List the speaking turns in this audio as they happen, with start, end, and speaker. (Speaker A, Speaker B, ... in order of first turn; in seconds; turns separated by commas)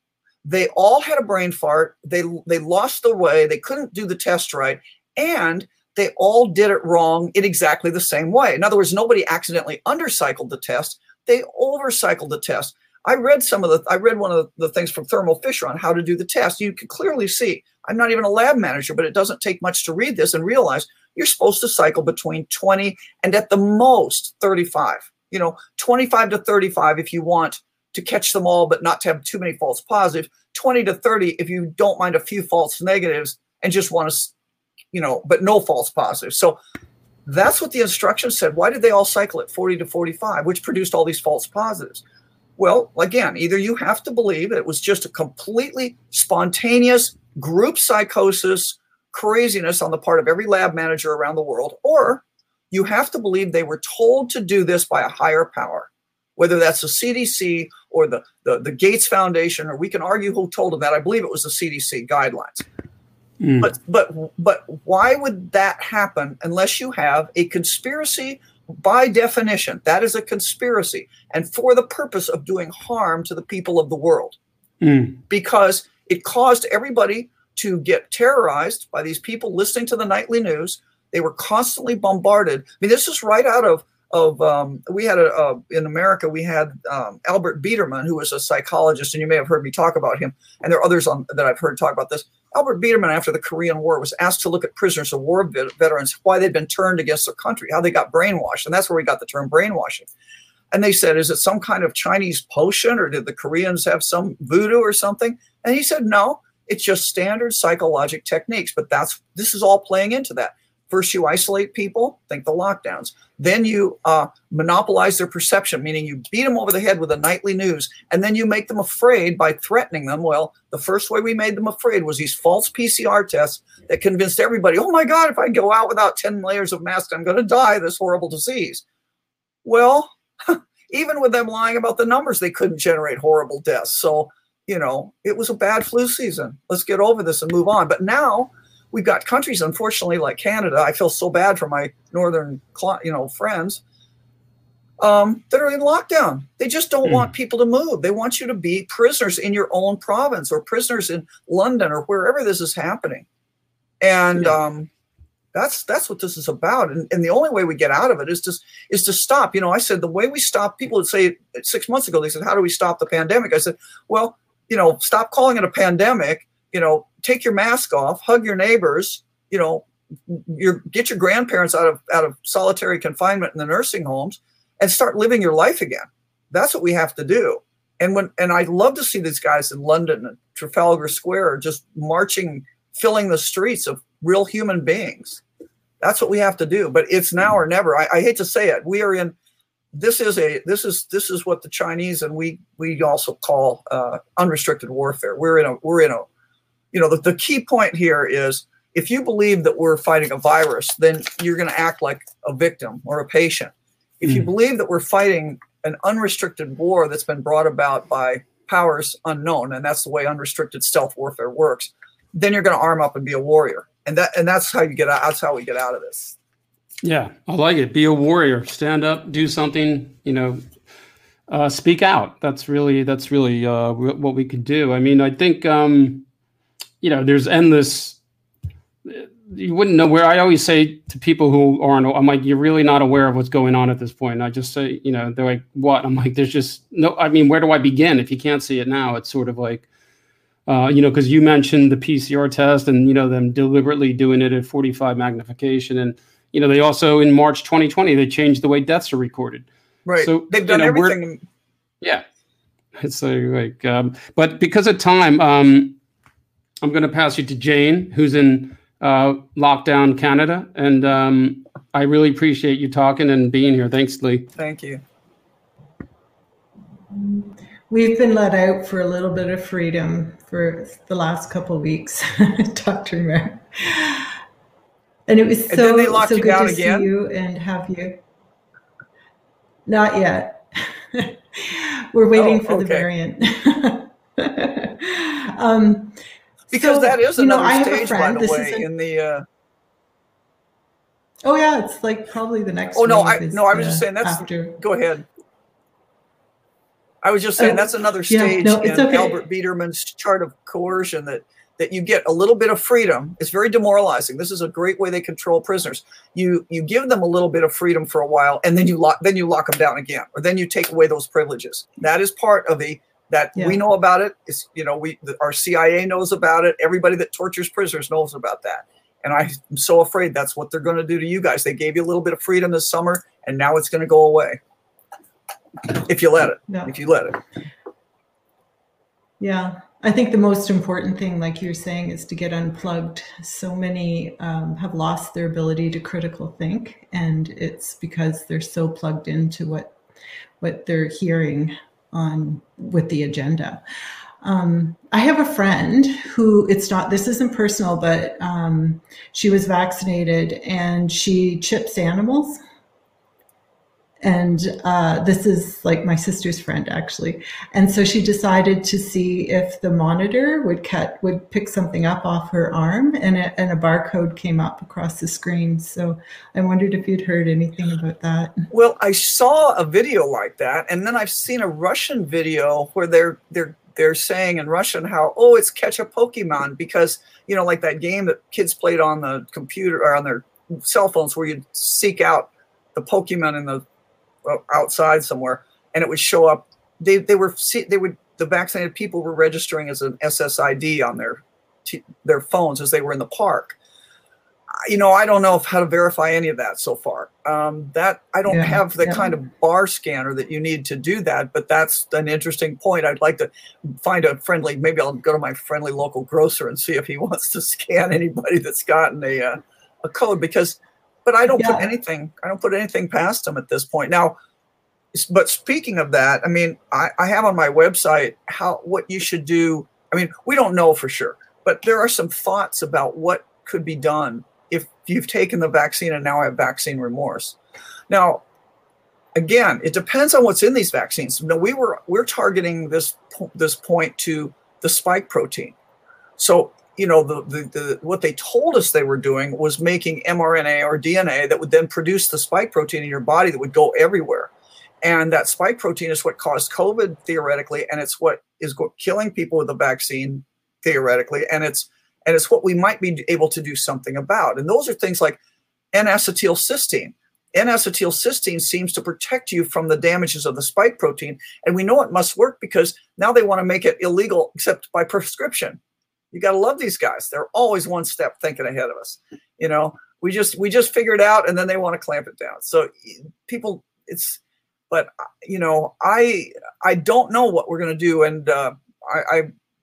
Speaker A: 0.4-34.3, Speaker A: 34.9-36.6, Speaker A: 37.3-42.0, Speaker A: 42.6-62.7, Speaker B: 63.4-63.7, Speaker A: 63.6-74.4, Speaker B: 74.8-75.2, Speaker A: 75.3-100.1, Speaker A: 100.7-128.8, Speaker A: 129.7-143.8, Speaker A: 145.0-153.3, Speaker A: 154.0-154.9, Speaker A: 155.5-185.4, Speaker A: 186.0-189.3, Speaker A: 189.9-196.3, Speaker A: 196.9-216.4, Speaker B: 217.0-220.7, Speaker B: 221.5-226.2, Speaker B: 227.0-228.2, Speaker B: 229.1-239.9, Speaker B: 240.7-251.2, Speaker A: 250.1-251.4, Speaker B: 253.0-256.0, Speaker B: 256.8-264.5, Speaker A: 264.6-265.0, Speaker C: 267.1-274.3, Speaker C: 275.3-278.2, Speaker A: 275.7-277.1, Speaker C: 279.9-286.2, Speaker A: 282.3-283.1, Speaker A: 286.7-289.4, Speaker C: 286.7-288.9, Speaker C: 291.4-294.8, Speaker A: 292.9-295.3, Speaker A: 297.2-324.6, Speaker C: 297.6-299.3, Speaker A: 325.9-327.4, Speaker C: 326.7-326.9, Speaker C: 329.4-340.0, Speaker C: 340.6-343.8, Speaker C: 344.4-352.6, Speaker C: 354.2-368.6, Speaker A: 368.7-383.8, Speaker A: 384.4-393.8, Speaker A: 394.9-414.4, Speaker C: 398.5-399.3, Speaker C: 411.5-411.9, Speaker A: 415.1-427.6, Speaker A: 428.1-428.4, Speaker A: 429.4-435.8, Speaker A: 436.4-444.5, Speaker A: 445.0-455.4, Speaker A: 455.9-465.8, Speaker A: 466.3-479.5